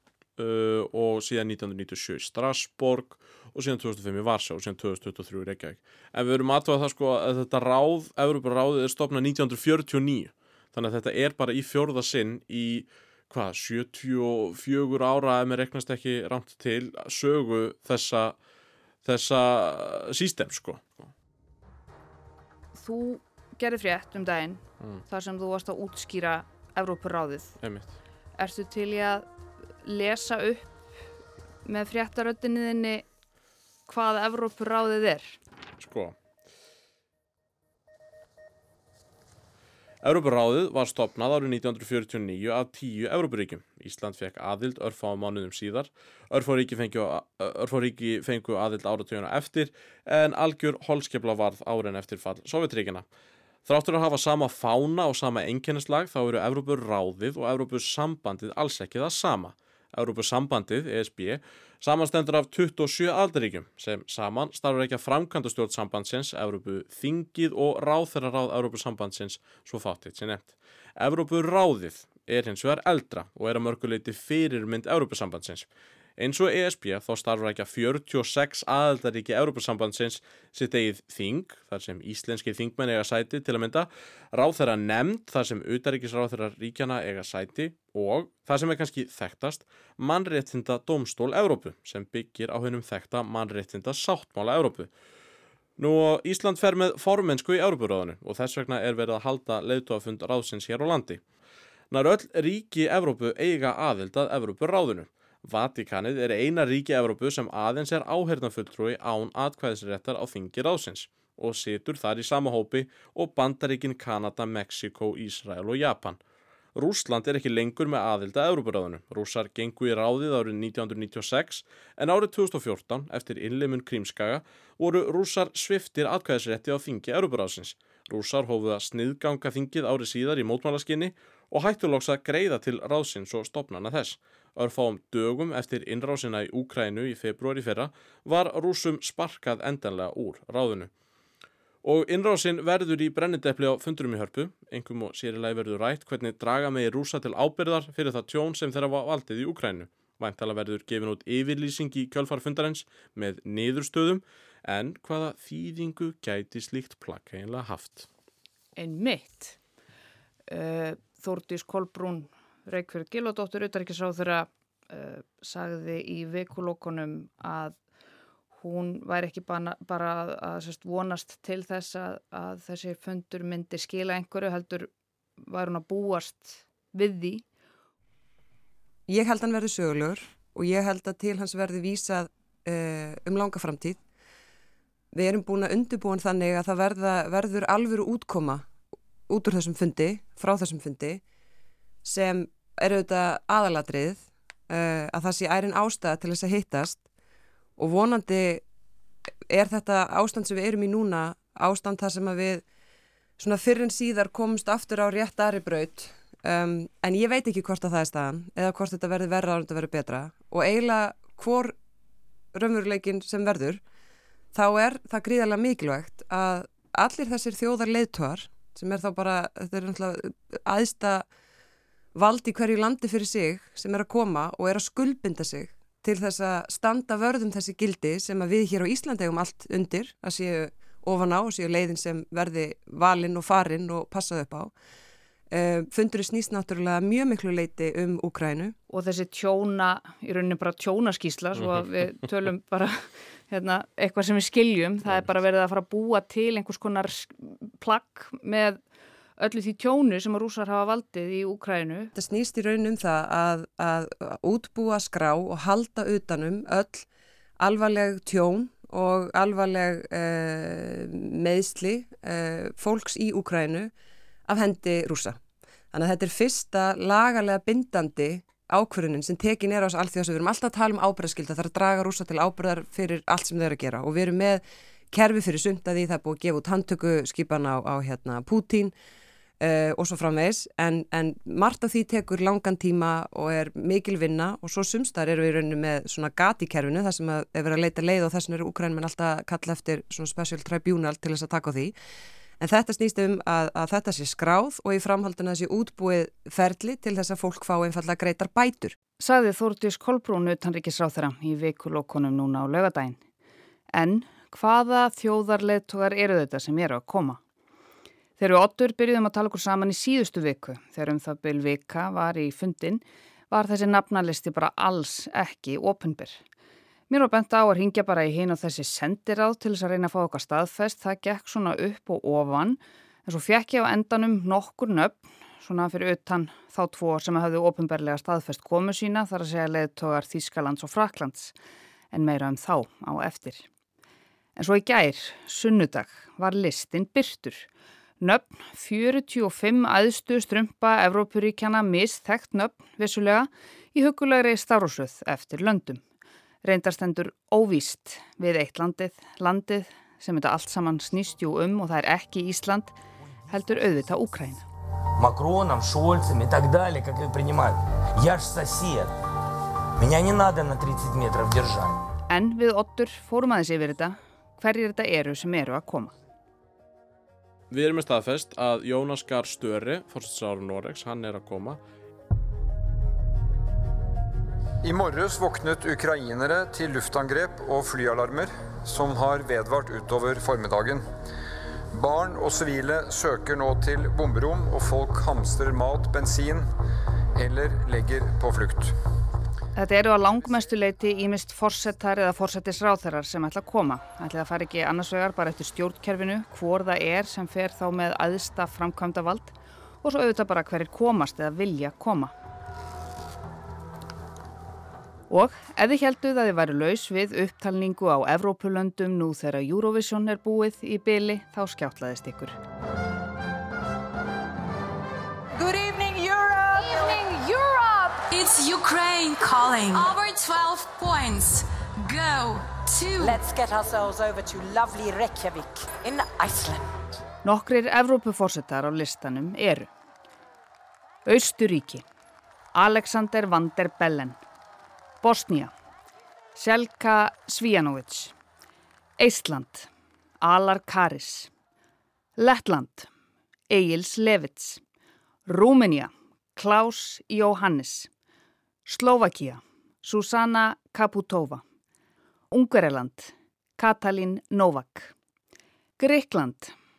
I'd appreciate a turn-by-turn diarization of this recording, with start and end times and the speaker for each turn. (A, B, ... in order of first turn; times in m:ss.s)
0:00.4-0:18.4 A
0:19.0-0:21.1 A
0:22.7-0:27.6 B
0:27.6-0:27.9 A
0:28.4-0:29.3 B
0:29.8-0:30.8 B
0:31.6-0:33.1 B
0:33.9-0:35.4 B
0:35.8-0:36.2 A
0:40.0-0:53.0 A
0:53.7-1:34.9 A
1:35.8-1:41.2 A
1:41.9-1:56.2 A
1:56.8-2:20.9 A
2:21.8-2:38.1 A
2:38.8-2:39.6 B
2:40.5-2:47.8 B
2:48.6-2:57.4 B
2:59.1-3:04.0 C
3:05.1-3:08.7 C
3:09.3-3:11.2 C
3:12.1-3:17.0 C
3:17.8-3:18.6 C
3:19.5-3:22.6 C
3:23.4-3:31.8 C
3:32.6-3:33.8 C
3:34.5-3:41.2 C
3:42.2-3:54.7 C
3:55.5-3:58.7 C
3:58.9-4:08.8 B
4:09.4-4:12.1 B
4:12.2-4:17.1 C
4:17.6-4:23.9 C
4:24.5-4:25.4 C
4:25.9-4:38.9 C
4:39.6-4:51.9 C
4:52.6-4:59.0 C
4:59.2-5:03.2 B
5:03.9-5:07.4 B
5:08.4-5:16.4 B
5:17.1-5:31.6 B
5:32.1-5:33.6 B
5:34.6-5:37.7 B
5:38.2-5:46.0 B
5:46.6-5:53.0 B
5:53.5-5:54.6 B
5:55.2-5:59.1 D
6:00.0-6:01.9 D
6:02.3-6:06.1 B
6:07.7-6:11.8 A
6:14.8-6:21.0 E
6:21.9-6:26.7 E
6:27.4-6:28.9 E
6:29.7-6:42.3 B
6:45.3-6:52.6 B
6:55.6-6:58.1 F
6:56.9-6:57.2 G
6:58.2-7:03.4 G
7:03.2-7:06.8 F
7:07.4-7:09.9 B
7:11.2-7:12.0 B
7:12.8-7:14.4 B
7:15.2-7:15.7 B
7:16.6-7:18.3 B
7:19.2-7:19.9 B
7:20.4-7:21.5 B
7:22.4-7:23.1 B
7:23.7-7:24.8 B
7:25.5-7:28.1 B
7:28.8-7:31.6 B
7:32.5-7:35.1 B
7:36.0-7:36.7 B